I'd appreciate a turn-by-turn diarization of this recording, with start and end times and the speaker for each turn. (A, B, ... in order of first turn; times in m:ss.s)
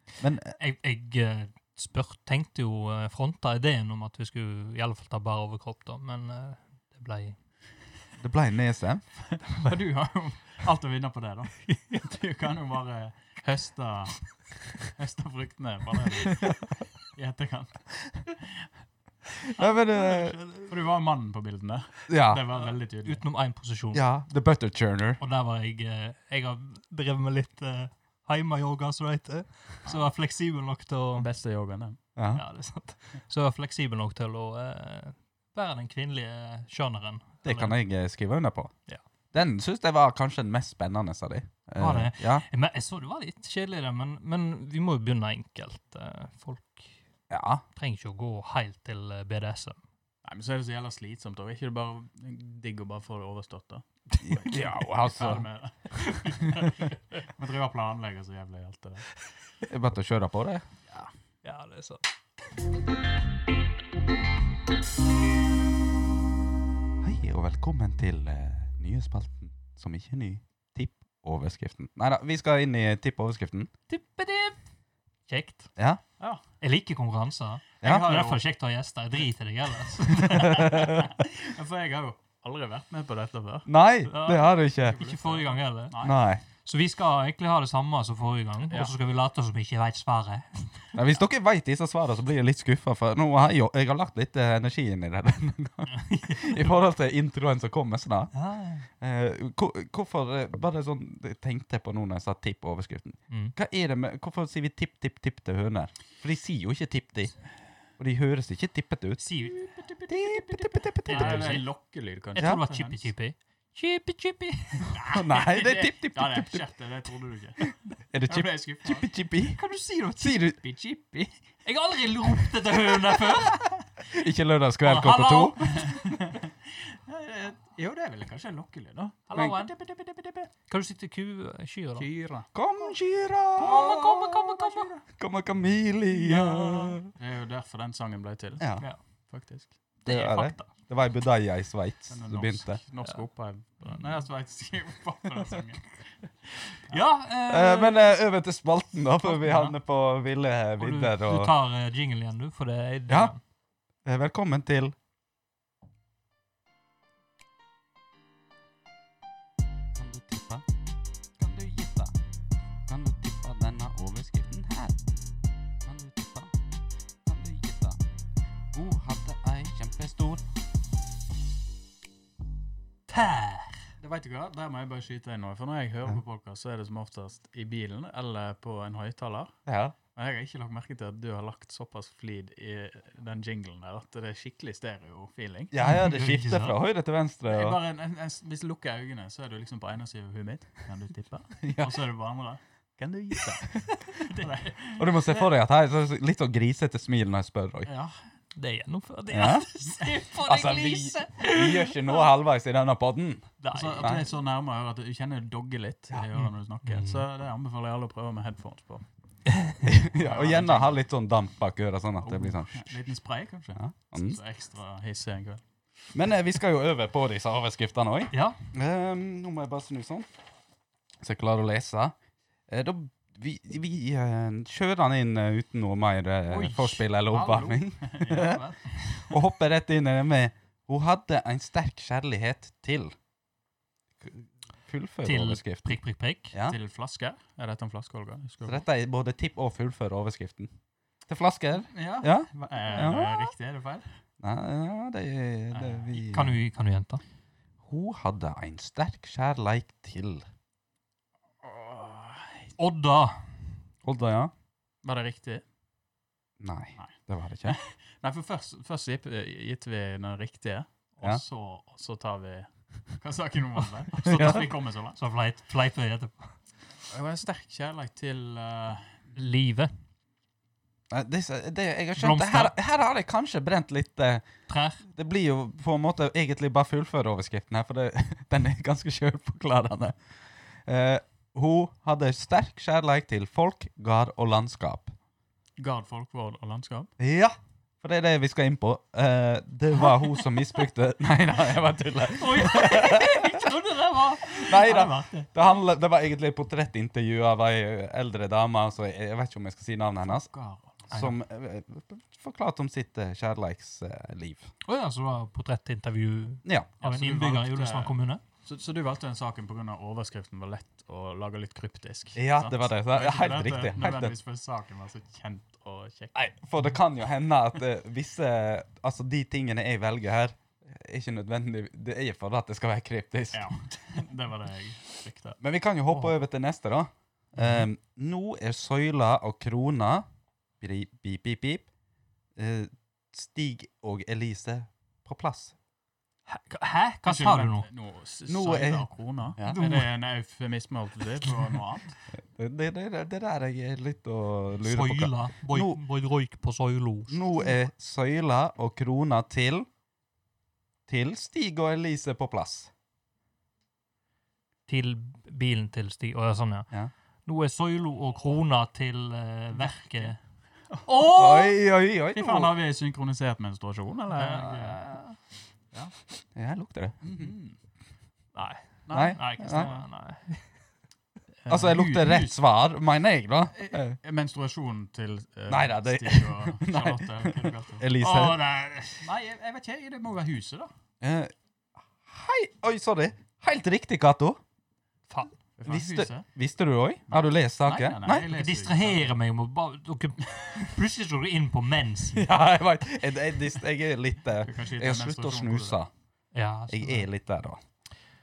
0:00.2-0:00.6 A
0:00.6-0:07.4 B
0:08.2-0:09.2 A
0:09.3-0:18.7 C
0:19.6-0:20.4 A
0:19.6-0:20.7 B
0:20.7-0:23.2 C
0:22.1-0:22.4 A
0:22.5-0:24.0 B
0:23.9-0:25.2 A
0:25.2-0:31.3 B
0:31.2-0:32.0 C
0:32.2-0:32.5 A
0:32.3-0:37.8 B
0:37.4-0:38.8 A
0:39.3-0:42.4 A
0:41.8-0:47.0 B
0:47.3-0:47.6 A
0:47.8-0:49.8 B
0:50.2-0:59.1 C
0:54.1-0:55.5 A
0:59.7-1:00.6 A
1:01.4-1:02.0 B
1:07.0-1:13.7 A
1:13.9-1:14.6 B
1:15.3-1:15.7 B
1:16.6-1:20.9 B
1:17.8-1:18.1 A
1:17.8-1:18.4 C
1:20.3-1:21.1 A
1:20.6-1:23.7 C
1:23.7-1:25.0 A
1:24.1-1:26.0 B
1:24.3-1:26.2 C
1:26.0-1:26.4 A
1:26.6-1:30.9 B
1:31.0-1:38.3 A
1:35.9-1:36.7 B
1:38.3-1:38.9 B
1:39.0-1:47.4 A
1:43.3-1:43.6 B
1:48.0-1:49.3 A
1:49.2-1:49.7 B
1:49.6-1:53.1 C
1:50.1-1:51.6 A
1:51.0-1:51.7 B
1:52.4-1:55.0 B
1:54.9-1:56.7 A
1:55.1-1:57.8 C
1:58.1-1:59.6 A
1:58.3-1:59.1 C
1:59.5-2:00.4 B
2:00.2-2:00.6 A
2:00.6-2:01.4 C
2:01.6-2:03.6 B
2:04.1-2:05.8 A
2:04.8-2:06.2 B
2:05.6-2:10.5 C
2:09.3-2:09.7 B
2:10.7-2:12.1 B
2:12.0-2:12.5 C
2:12.5-2:14.1 A
2:13.6-2:15.0 C
2:13.6-2:14.9 B
2:15.1-2:17.1 A
2:16.1-2:19.7 C
2:18.6-2:18.9 A
2:20.0-2:22.8 A
2:20.1-2:20.7 B
2:22.1-2:26.0 C
2:26.7-2:27.0 C
2:26.9-2:28.0 B
2:27.5-2:31.5 A
2:29.2-2:29.8 B
2:30.8-2:33.4 B
2:34.0-2:35.0 A
2:39.9-2:40.6 A
2:41.4-2:42.1 A
2:42.9-2:45.0 A
2:45.8-2:46.5 A
2:47.2-2:48.0 A
2:48.7-2:50.4 A
2:53.1-2:53.9 B
2:54.0-2:59.6 C
2:59.7-3:00.0 A
3:00.2-3:05.8 C
3:05.7-3:07.8 A
3:05.8-3:06.8 B
3:07.5-3:15.4 C
3:11.6-3:12.0 A
3:14.1-3:14.5 B
3:15.0-3:17.9 A
3:17.9-3:18.2 C
3:18.6-3:22.3 B
3:19.3-3:19.7 A
3:20.3-3:24.2 A
3:23.6-3:24.2 B
3:23.7-3:29.0 C
3:26.4-3:27.2 B
3:29.6-3:29.8 B
3:29.8-3:33.1 A
3:30.2-3:31.0 C
3:32.2-3:35.6 C
3:33.8-3:34.4 A
3:36.1-3:40.3 A
3:38.3-3:38.6 B
3:41.2-3:42.2 A
3:42.7-3:48.6 A
3:46.5-3:49.4 C
3:48.3-3:49.0 B
3:49.1-3:53.1 A
3:54.2-3:56.0 A
3:55.2-3:56.5 B
3:56.5-3:56.8 A
3:56.7-3:58.8 C
3:58.6-4:00.7 A
4:01.3-4:03.5 A
4:01.9-4:04.0 C
4:04.4-4:06.6 A
4:05.8-4:06.1 C
4:06.1-4:07.2 B
4:07.8-4:10.4 A
4:11.6-4:12.7 C
4:12.8-4:13.6 B
4:14.0-4:14.5 A
4:15.0-4:15.6 C
4:16.6-4:17.8 A
4:17.0-4:25.2 C
4:23.8-4:26.6 B
4:24.2-4:24.7 A
4:27.1-4:29.3 C
4:29.4-4:29.9 B
4:31.1-4:34.4 A
4:32.2-4:32.7 B
4:34.7-4:35.0 B
4:35.1-4:40.2 A
4:40.8-4:45.1 A
4:45.8-4:47.1 C
4:47.2-4:53.7 A
4:52.4-4:55.0 B
4:54.6-4:55.5 C
4:54.6-5:00.5 A
5:00.2-5:01.1 C
5:01.1-5:04.7 A
5:01.1-5:01.4 B
5:04.8-5:08.4 B
5:06.6-5:06.9 A
5:07.0-5:16.4 C
5:12.4-5:14.4 A
5:16.4-5:23.7 A
5:23.5-5:25.6 C
5:25.6-5:30.2 A
5:27.6-5:27.8 B
5:30.8-5:31.9 A
5:32.6-5:35.8 A
5:36.5-5:37.9 B
5:37.2-5:42.2 C
5:38.5-5:39.1 A
5:39.7-5:40.1 B
5:42.4-5:46.0 A
5:44.8-5:47.4 B
5:47.3-5:49.9 A
5:51.1-5:52.9 A
5:54.9-5:56.9 B
5:57.4-6:00.4 B
5:59.8-6:00.3 C
6:01.0-6:01.8 B
6:01.4-6:02.7 A
6:02.3-6:05.0 C
6:04.3-6:05.4 B
6:06.6-6:07.5 A
6:07.2-6:07.8 C
6:08.6-6:10.1 C
6:08.6-6:10.7 B
6:09.1-6:09.9 A
6:11.6-6:12.6 C
6:11.7-6:14.2 A
6:13.7-6:18.1 C
6:15.7-6:18.6 A
6:18.2-6:19.3 B
6:19.2-6:20.9 C
6:21.2-6:21.5 A
6:22.2-6:24.6 A
6:25.8-6:26.5 C
6:25.9-6:28.5 A
6:27.3-6:29.4 C
6:28.4-6:32.5 B
6:32.4-6:36.1 A
6:34.6-6:36.0 C
6:36.5-6:37.3 B
6:36.9-6:37.8 A